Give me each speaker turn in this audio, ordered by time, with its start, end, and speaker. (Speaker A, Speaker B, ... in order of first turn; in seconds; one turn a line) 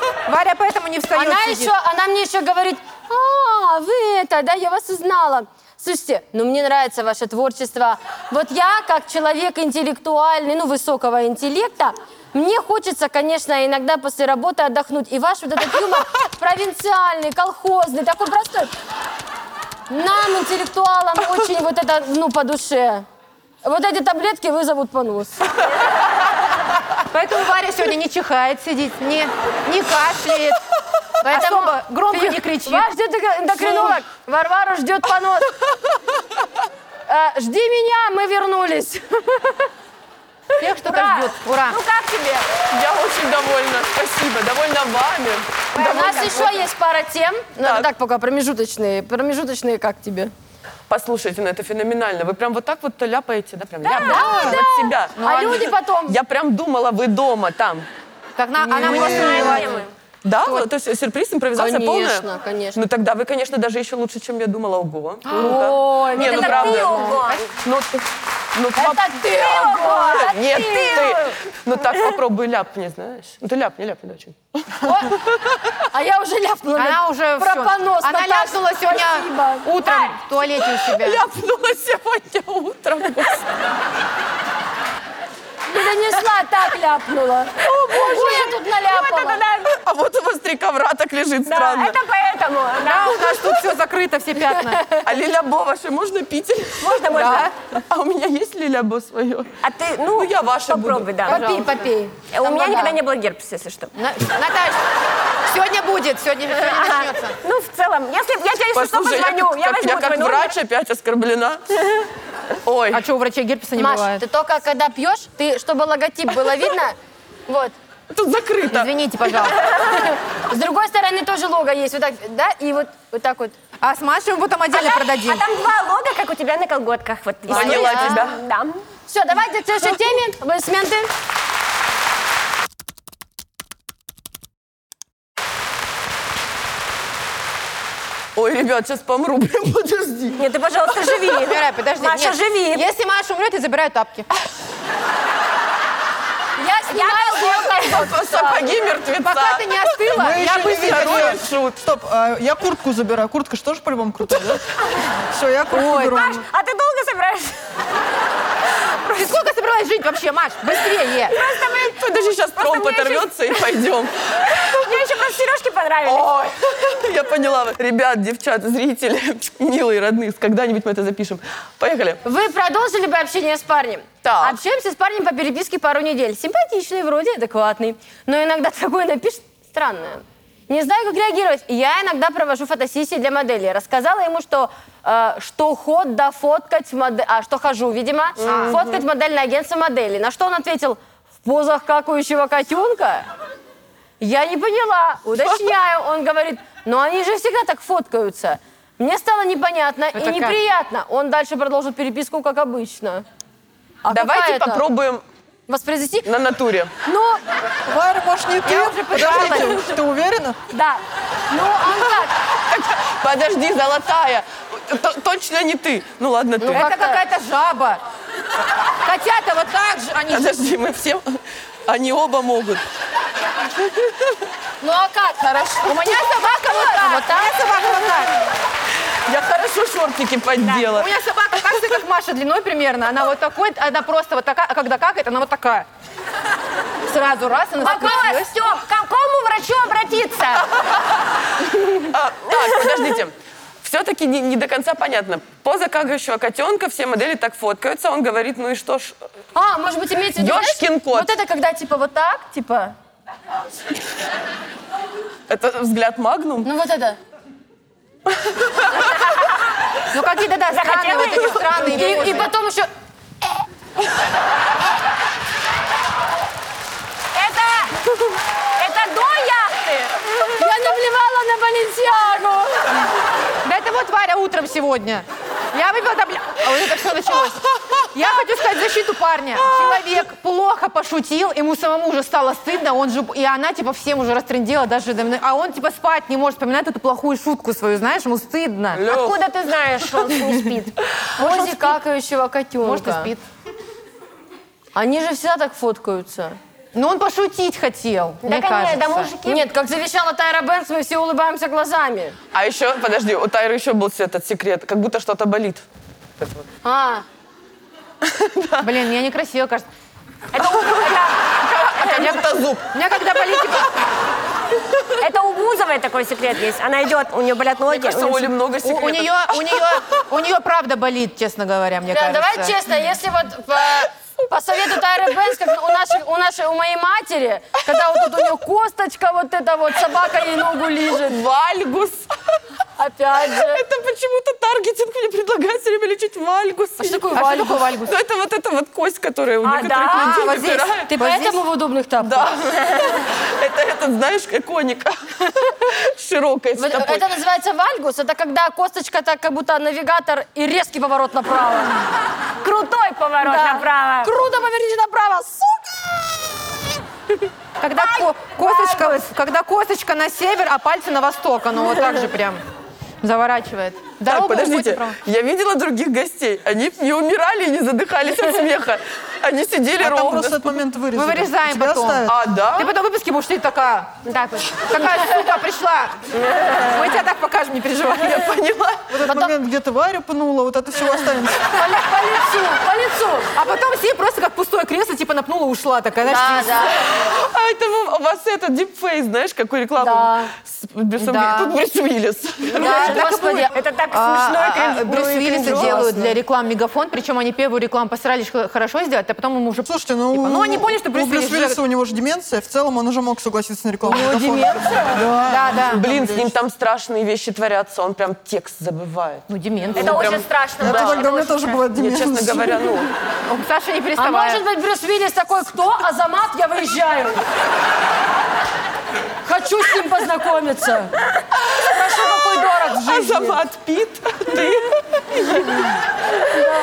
Speaker A: 0.3-1.7
Speaker B: 1.1-18.7
Speaker B: 19.9-23.1
Speaker B: 23.6-25.6
Speaker A: 27.1-30.6
Speaker A: 31.2-32.9
Speaker B: 31.2-35.6
Speaker A: 33.5-34.0
Speaker B: 37.1-39.7
Speaker A: 40.6-41.8
Speaker C: 40.8-42.6
Speaker D: 42.6-46.5
Speaker B: 45.8-50.3
Speaker A: 45.8-46.5
Speaker D: 47.6-47.9
Speaker D: 50.9-55.3
Speaker C: 53.8-54.5
Speaker B: 54.0-56.2
Speaker A: 54.2-54.6
Speaker A: 55.2-55.7
Speaker D: 56.1-57.9
Speaker A: 58.4-59.9
Speaker C: 58.8-59.9
Speaker E: 58.8-59.6
Speaker D: 59.1-59.5
Speaker D: 60.2-75.6
Speaker A: 60.4-60.7
Speaker B: 61.5-62.8
Speaker A: 65.3-65.6
Speaker B: 65.3-67.1
Speaker C: 66.1-67.5
Speaker A: 66.3-67.5
Speaker B: 68.8-71.3
Speaker C: 69.5-71.3
Speaker B: 74.8-75.1
Speaker B: 75.9-80.2
Speaker A: 76.8-81.2
Speaker D: 80.6-83.5
Speaker B: 85.7-89.4
Speaker C: 87.7-89.8
Speaker D: 89.7-92.0
Speaker C: 91.5-93.6
Speaker A: 92.8-94.9
Speaker B: 94.7-95.1
Speaker D: 95.0-97.1
Speaker C: 96.8-97.5
Speaker A: 97.1-97.5
Speaker D: 97.8-99.5
Speaker C: 99.6-101.4
Speaker D: 100.1-101.3
Speaker B: 101.3-103.0
Speaker A: 101.3-101.9
Speaker C: 102.3-103.9
Speaker A: 104.0-104.8
Speaker A: 105.5-107.3
Speaker C: 106.5-110.5
Speaker D: 108.7-111.6
Speaker D: 112.7-113.1
Speaker A: 112.9-114.2
Speaker B: 113.8-117.0
Speaker B: 117.5-117.7
Speaker D: 118.1-118.9
Speaker A: 118.7-119.6
Speaker B: 119.8-123.6
Speaker A: 123.8-125.4
Speaker C: 124.7-128.8
Speaker D: 127.5-128.4
Speaker A: 127.5-128.2
Speaker B: 127.5-128.2
Speaker B: 129.1-131.1
Speaker D: 138.3-140.4
Speaker C: 140.4-142.9
Speaker A: 141.3-144.3
Speaker B: 146.6-148.8
Speaker C: 146.9-147.7
Speaker D: 147.8-151.8
Speaker A: 149.2-151.3
Speaker E: 150.2-154.7
Speaker E: 155.2-156.5
Speaker C: 155.7-157.6
Speaker A: 159.0-161.4
Speaker C: 161.3-163.7
Speaker D: 161.7-164.1
Speaker C: 164.5-166.3
Speaker D: 166.1-172.2
Speaker B: 172.2-193.3
Speaker D: 174.2-174.6
Speaker A: 188.4-188.8
Speaker B: 194.2-203.2
Speaker A: 200.2-200.6
Speaker B: 204.0-204.8
Speaker D: 204.1-205.2
Speaker B: 205.7-206.3
Speaker D: 206.2-206.9
Speaker B: 207.1-207.4
Speaker E: 207.9-210.6
Speaker A: 208.7-209.9
Speaker B: 210.7-212.3
Speaker D: 212.2-216.9
Speaker B: 216.6-217.2
Speaker A: 216.7-218.0
Speaker A: 219.0-220.8
Speaker D: 220.3-222.8
Speaker D: 223.8-224.4
Speaker B: 224.8-227.6
Speaker A: 225.8-228.3
Speaker D: 229.3-231.1
Speaker A: 230.9-235.9
Speaker A: 237.1-238.6
Speaker C: 237.8-240.7
Speaker D: 241.9-249.2
Speaker B: 249.6-252.9
Speaker D: 250.4-251.3
Speaker D: 255.5-256.7
Speaker B: 256.6-257.2
Speaker D: 258.5-258.9
Speaker A: 260.1-262.5
Speaker C: 260.7-262.5
Speaker B: 261.8-262.9
Speaker C: 267.4-268.1
Speaker C: 268.8-270.4
Speaker B: 270.6-273.1
Speaker A: 273.6-277.6
Speaker A: 278.1-289.1
Speaker D: 279.8-280.0
Speaker D: 288.9-289.4
Speaker C: 289.0-290.9
Speaker A: 291.4-292.0
Speaker B: 291.4-293.3
Speaker A: 292.8-293.4
Speaker B: 294.9-296.6
Speaker A: 296.9-299.3
Speaker C: 298.4-299.7
Speaker B: 299.4-302.4
Speaker D: 302.5-305.8
Speaker D: 306.4-306.6
Speaker B: 306.8-307.2
Speaker D: 308.2-308.9
Speaker A: 308.8-309.9
Speaker C: 310.5-311.4
Speaker D: 310.6-312.9
Speaker A: 312.0-313.9
Speaker C: 315.2-318.5
Speaker D: 317.9-320.0
Speaker A: 318.8-322.8
Speaker B: 322.1-331.4
Speaker D: 331.1-332.3
Speaker B: 333.0-333.8
Speaker D: 333.6-337.4
Speaker B: 337.0-337.9
Speaker A: 337.3-338.2
Speaker D: 338.1-341.1
Speaker B: 339.6-340.5
Speaker A: 340.1-341.6
Speaker B: 341.1-342.6
Speaker D: 342.2-347.3
Speaker B: 346.8-352.1
Speaker C: 352.6-354.3
Speaker B: 353.4-356.1
Speaker A: 357.8-362.6
Speaker C: 357.9-359.2
Speaker A: 363.2-365.2
Speaker D: 364.3-370.6
Speaker E: 370.0-372.4
Speaker A: 371.1-374.2
Speaker D: 372.3-372.9
Speaker C: 374.2-374.7
Speaker A: 374.7-376.2
Speaker A: 376.8-378.5
Speaker D: 378.2-379.2
Speaker E: 379.1-381.8
Speaker B: 379.2-379.5
Speaker B: 381.7-383.5
Speaker A: 383.5-386.9
Speaker D: 386.2-392.8
Speaker B: 390.0-390.5
Speaker A: 391.2-391.8
Speaker B: 392.8-393.8
Speaker C: 392.8-396.1
Speaker A: 392.8-401.8
Speaker B: 395.4-396.4
Speaker E: 399.9-406.5
Speaker B: 404.1-405.2
Speaker A: 405.5-406.0
Speaker D: 405.9-409.5
Speaker A: 409.5-410.4
Speaker C: 409.9-411.8
Speaker D: 410.1-410.4
Speaker E: 410.8-413.0
Speaker D: 411.9-413.1
Speaker A: 413.5-414.6
Speaker B: 414.2-417.4
Speaker B: 419.4-421.1
Speaker B: 421.8-423.6
Speaker D: 423.0-425.9